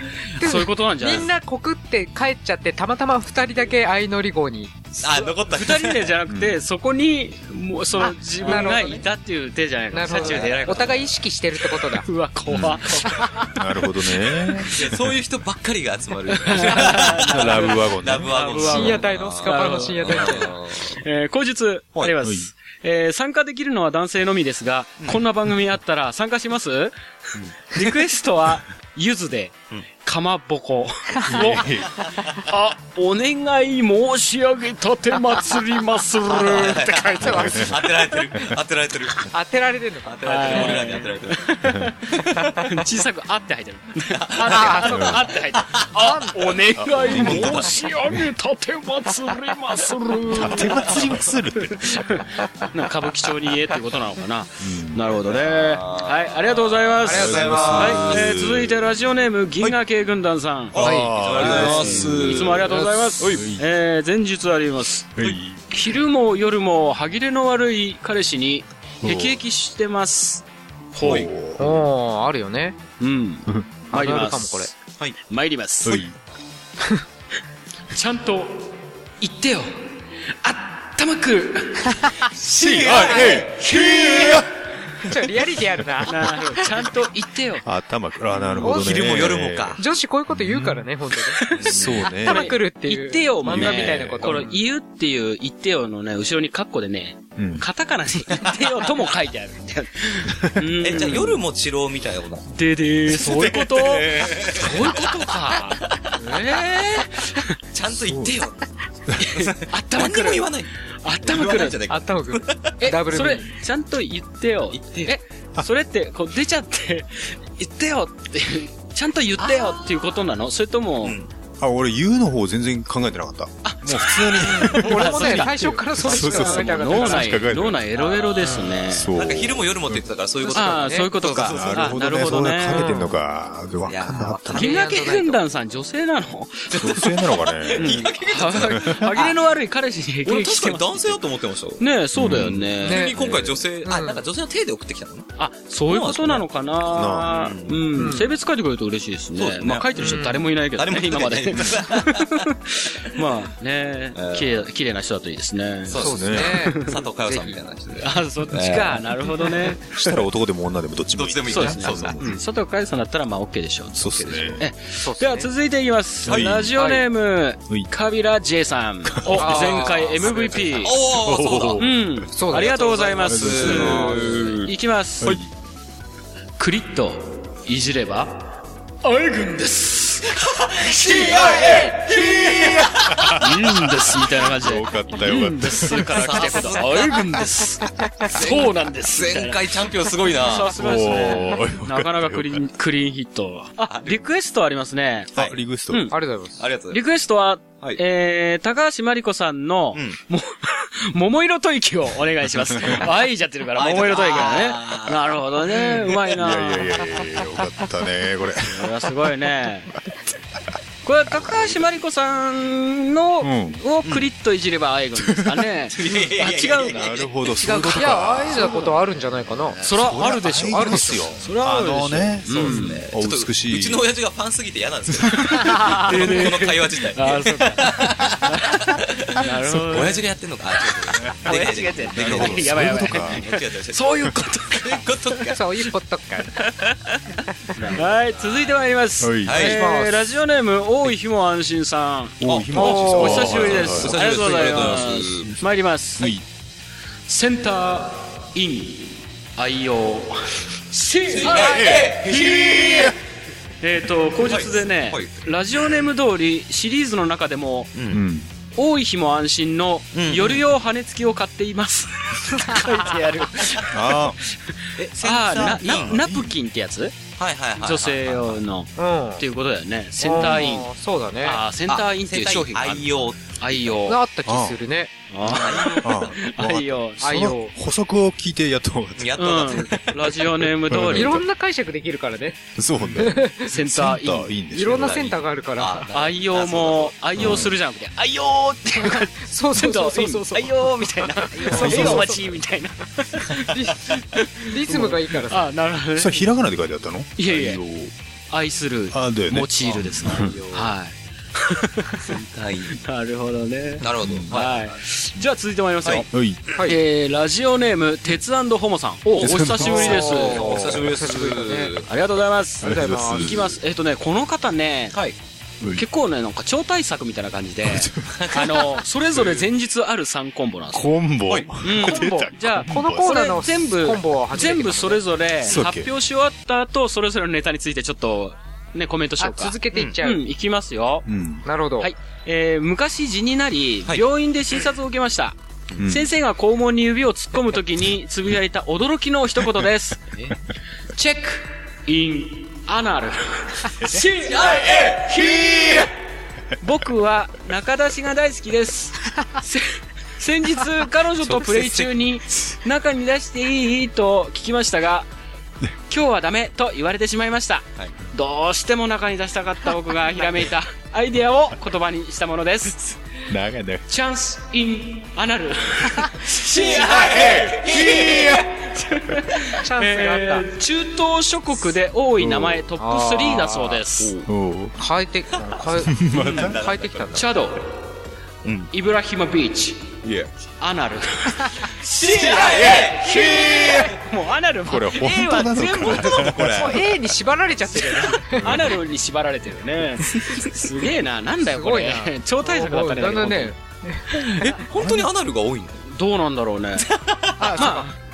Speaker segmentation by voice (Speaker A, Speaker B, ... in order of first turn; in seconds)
Speaker A: 0.4-1.3, 5.5-11.0, 11.9-13.5, 16.3-26.9, 27.7-31.7, 32.4-37.6, 40.2-51.1, 51.7-60.8, 61.3-71.3, 73.0-74.7, 75.3-76.0, 77.9-79.8, 80.4-82.3, 82.9-84.3, 86.0-87.7, 91.4-101.4, 102.5-107.5, 109.2-110.5, 111.0-111.8, 112.8-121.2, 123.6-129.1, 130.5-132.9, 134.6-137.1, 137.8-141.2, 141.8-143.1, 145.4-156.9, 158.0-159.9, 161.5-171.0, 171.8-175.4, 176.6-178.4, 179.0-189.6, 190.3-195.3, 195.9-196.2, 196.9-206.9, 208.6-209.9, 211.1-218.9, 219.8-223.1, 225.4-230.2, 231.4-235.1, 236.6-237.2, 237.8-246.4, 247.3-250.4, 250.9-253.1, 253.8-257.9, 258.8-267.2, 267.8-270.9, 271.4-274.2, 275.3-277.4, 279.4-281.4, 283.6-284.5, 286.1-293.8, 294.3-296.5, 297.4-297.8, 298.5-302.3, 302.9-310.8, 312.1-315.2, 316.0-321.1, 321.8-331.3, 332.0-340.2, 341.1-346.1, 346.8-355.3, 356.1-363.2, 364.1-374.3, 377.3-377.9, 378.9-380.1, 380.8-386.5, 388.6-393.7, 396.1-397.1, 397.8-398.1
Speaker B: 0.4-4.8, 8.0-9.1, 9.9-12.1, 18.6-20.6, 37.2-37.7, 39.3-40.9, 44.4-45.2, 46.0-46.3, 57.1-57.9, 60.8-61.8, 71.6-72.8, 73.9-74.7, 82.7-84.4, 85.0-86.7, 88.6-89.2, 89.8-91.5, 92.0-94.5, 111.9-113.5, 124.4-127.4, 130.4-131.1, 132.7-133.2, 134.5-135.4, 142.8-144.2, 147.9-148.3, 150.0-150.4, 156.0-157.6, 165.0-165.5, 166.8-167.1, 169.3-170.9, 172.3-172.7, 173.7-174.5, 196.1-196.6, 217.6-219.8, 220.7-221.4, 235.5-236.7, 239.6-240.2, 242.8-243.5, 269.0-269.4, 270.2-271.6, 274.1-275.1, 277.2-277.7, 281.1-282.6, 283.1-283.7, 284.7-286.1, 289.0-292.5, 293.6-295.7, 309.8-311.9, 322.8-325.2, 329.4-330.4, 331.6-332.1, 369.8-370.7, 373.0-374.0, 375.0-377.4, 386.8-388.7, 391.6-394.7, 397.6-398.1
Speaker C: 5.0-6.1, 10.1-10.9, 14.7-21.0, 36.3-39.3, 40.0-42.6, 44.1-45.9, 55.2-58.3, 60.7-62.8, 71.0-71.3, 82.6-83.3, 88.5-89.8, 91.5-92.1, 100.8-102.5, 103.1-105.1, 105.8-107.1, 107.7-108.7, 109.3-110.7, 111.2-112.7, 114.7-115.2, 119.4-119.9, 121.0-121.3, 128.0-132.0, 133.8-134.8, 136.8-139.3, 140.2-145.3, 145.9-146.5, 147.2-148.1, 149.4-152.4, 154.2-154.7, 155.9-159.1, 161.2-162.4, 169.5-171.9, 172.5-174.7, 180.8-182.9, 185.9-187.4, 188.3-190.7, 193.9-194.2, 196.6-197.0, 203.8-205.4, 215.9-217.3, 222.5-235.6, 237.8-238.8, 239.4-239.8, 242.4-245.6, 251.3-253.1, 254.4-256.1, 257.9-258.2, 260.1-260.6, 265.0-266.2, 267.4-268.6, 271.9-274.0, 275.4-276.4, 279.2-280.3, 284.9-287.2, 291.8-292.1, 299.9-300.9, 302.2-303.0, 304.0-304.9, 309.4-312.1, 318.3-319.0, 321.5-321.7, 329.9-330.2, 344.4-346.1, 351.5-352.1, 366.7-368.6, 374.2-374.5, 375.7-377.5, 378.6-378.9, 380.2-380.5, 382.1-384.1, 385.8-387.1, 394.6-396.0, 397.0-398.0
Speaker D: 6.3-6.6, 12.5-12.8, 13.5-15.1, 16.8-18.9, 22.2-22.5, 31.3-31.9, 37.3-37.7, 44.9-45.2, 46.8-48.2, 50.3-52.2, 54.6-55.0, 57.1-59.0, 60.7-63.6, 65.2-65.7, 69.0-69.4, 71.0-71.9, 75.8-76.2, 82.4-84.5, 87.6-90.9, 91.6-92.5, 93.4-94.5, 97.4-97.7, 108.0-108.4, 121.6-127.9, 128.8-130.0, 131.4-134.7, 136.7-139.1, 142.2-142.6, 146.9-147.3, 155.9-156.6, 159.9-162.2, 163.9-164.7, 166.3-166.8, 169.1-169.7, 171.1-172.2, 173.2-174.3, 175.2-175.5, 182.5-186.3, 190.6-192.7, 195.3-196.1, 206.3-209.0, 211.3-211.7, 213.4-213.8, 215.2-215.7, 216.7-218.9, 219.9-224.1, 225.1-226.2, 229.7-230.0, 231.2-233.4, 239.2-239.6, 242.4-244.8, 246.2-246.4, 251.5-253.0, 258.1-258.5, 263.9-264.4, 265.9-266.6, 274.4-274.8, 276.0-279.8, 280.9-281.4, 282.8-285.3, 287.4-287.7, 291.8-292.2, 296.2-298.1, 299.1-300.6, 304.2-304.5, 306.3-306.6, 309.4-310.1, 312.8-313.8, 317.8-318.5, 320.9-323.6, 325.6-326.1, 331.3-331.7, 336.0-336.3, 363.5-364.1, 367.1-368.7, 372.4-372.9, 374.5-375.0, 376.1-376.8, 382.6-384.0, 384.9-387.1, 388.6-388.9, 394.9-395.3